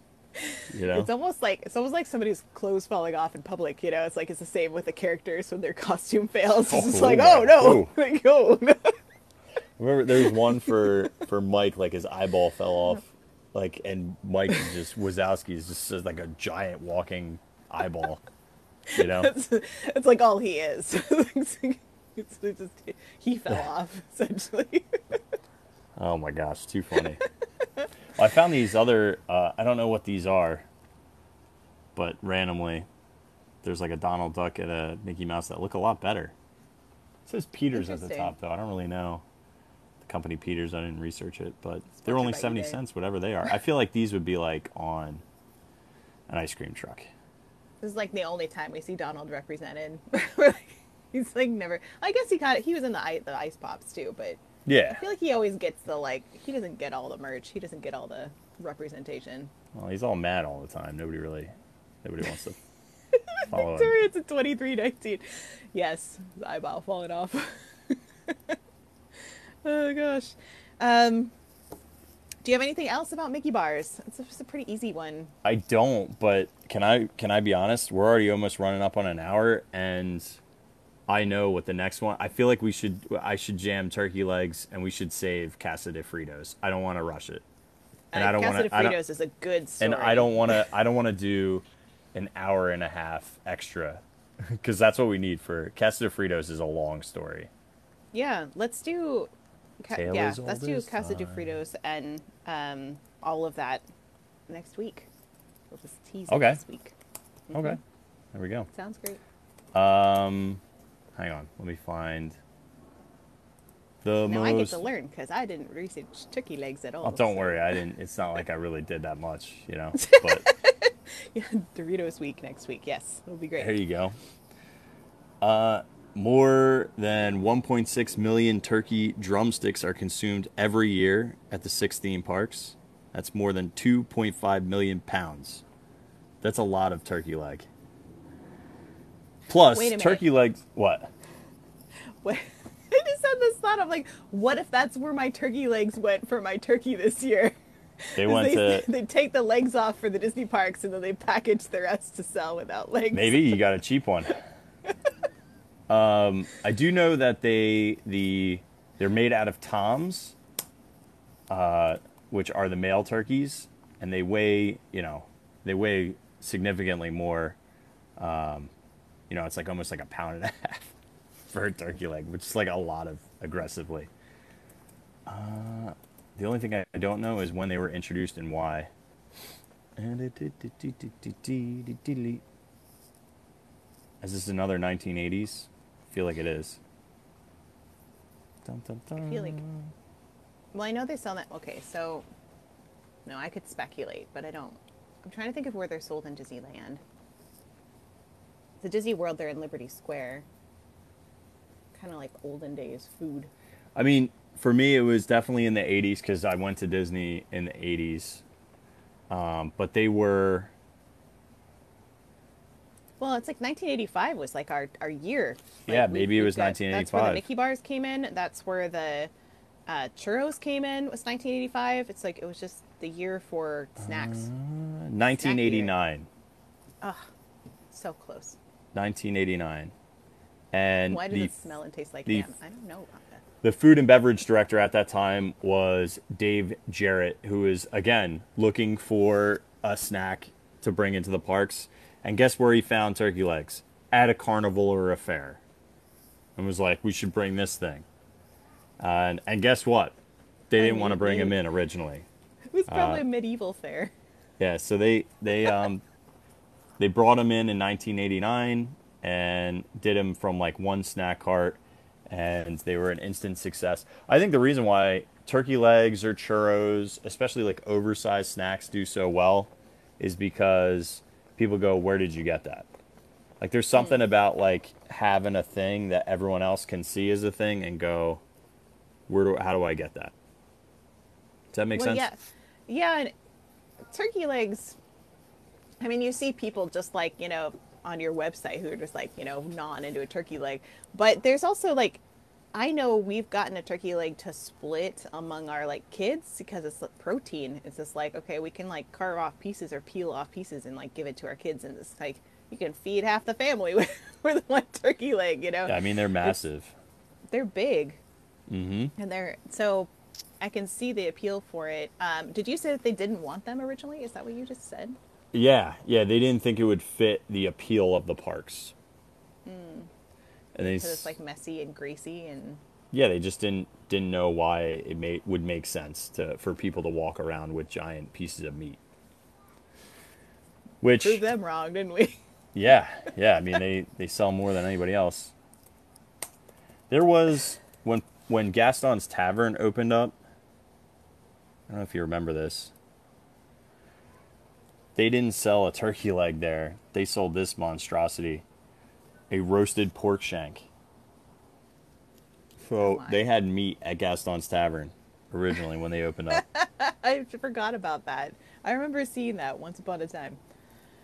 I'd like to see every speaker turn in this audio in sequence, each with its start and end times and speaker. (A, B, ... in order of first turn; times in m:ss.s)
0:00.4-0:09.0 A
0:00.7-0:01.1 B
0:06.7-0:07.9 B
0:09.8-0:18.2 B
0:18.9-0:25.2 A
0:18.9-0:19.3 B
0:26.0-0:27.2 B
0:28.2-0:30.7 B
0:32.0-0:32.9 B
0:33.6-0:36.3 B
0:37.3-0:39.2 B
0:37.7-0:38.3 A
0:40.0-0:45.2 B
0:42.0-0:42.8 A
0:46.3-0:47.1 B
0:47.8-0:54.4 A
0:54.7-0:55.0 B
0:54.9-0:59.5 A
0:59.7-1:01.5 B
1:02.0-1:02.6 B
1:03.1-1:08.6 A
1:03.5-1:04.0 B
1:09.2-1:11.3 A
1:12.4-1:15.3 A
1:15.4-1:20.4 B
1:21.1-1:27.4 B
1:28.1-1:30.6 A
1:28.1-1:29.0 B
1:29.8-1:37.5 B
1:38.1-1:43.8 A
1:39.9-1:41.6 B
1:44.5-1:45.1 A
1:45.7-1:47.0 A
1:46.3-1:46.6 B
1:47.5-1:47.8 A
1:47.5-1:47.8 B
1:48.3-1:48.7 B
1:48.7-1:49.2 A
1:49.7-1:50.6 B
1:51.2-1:52.4 B
1:54.0-1:54.9 B
1:54.2-1:57.7 A
1:57.0-2:00.5 B
2:00.0-2:03.8 A
2:03.6-2:04.2 B
2:05.4-2:15.6 B
2:16.4-2:17.7 B
2:19.5-2:21.1 B
2:19.7-2:20.3 A
2:22.2-2:33.5 A
2:28.2-2:28.9 B
2:33.1-2:34.4 B
2:35.9-2:40.4 B
2:41.5-2:47.6 B
2:48.2-2:48.7 B
2:49.3-2:50.9 B
2:51.5-2:54.1 B
2:55.3-2:58.9 B
3:00.0-3:02.4 B
3:04.2-3:06.8 B
3:08.6-3:09.9 B
3:09.2-3:09.6 A
3:10.7-3:12.3 A
3:13.3-3:17.0 A
3:18.8-3:20.5 A
3:21.9-3:23.5 A
3:24.0-3:28.4 B
3:29.3-3:30.7 B
3:33.2-3:39.3 A
3:35.9-3:37.4 B
3:39.9-3:44.5 A
3:44.0-3:46.3 B
3:45.3-3:46.0 A
3:47.0-3:47.3 A
3:47.9-3:48.6 A
3:48.9-3:49.9 B
3:50.7-3:51.5 B
3:51.1-3:53.4 A
3:53.6-4:05.6 B
4:06.6-4:08.1 B
4:09.0-4:10.2 B
4:10.7-4:12.3 B
4:10.8-4:11.6 A
4:12.7-4:14.1 A
4:12.9-4:13.2 B
4:14.6-4:16.0 B
4:17.0-4:32.9 B
4:33.6-4:38.4 B
4:39.3-4:40.3 B
4:41.7-4:42.3 B
4:42.0-4:43.3 A
4:44.1-4:45.0 A
4:46.0-4:52.2 A
4:52.7-5:06.6 A
5:05.8-5:06.9 B
5:07.5-5:08.2 A
5:08.7-5:09.2 B
5:09.2-5:15.2 A
5:15.5-5:18.9 B
5:19.6-5:20.1 A
5:20.8-5:21.3 B
5:20.8-5:22.8 A
5:23.1-5:29.0 B
5:31.0-5:31.4 B
5:31.2-5:32.4 A
5:32.8-5:35.5 B
5:37.1-5:40.4 B
5:41.9-5:42.9 B
5:45.2-5:48.6 B
5:49.5-5:50.9 B
5:52.8-5:56.6 B
5:53.0-5:53.4 A
5:56.5-6:00.6 A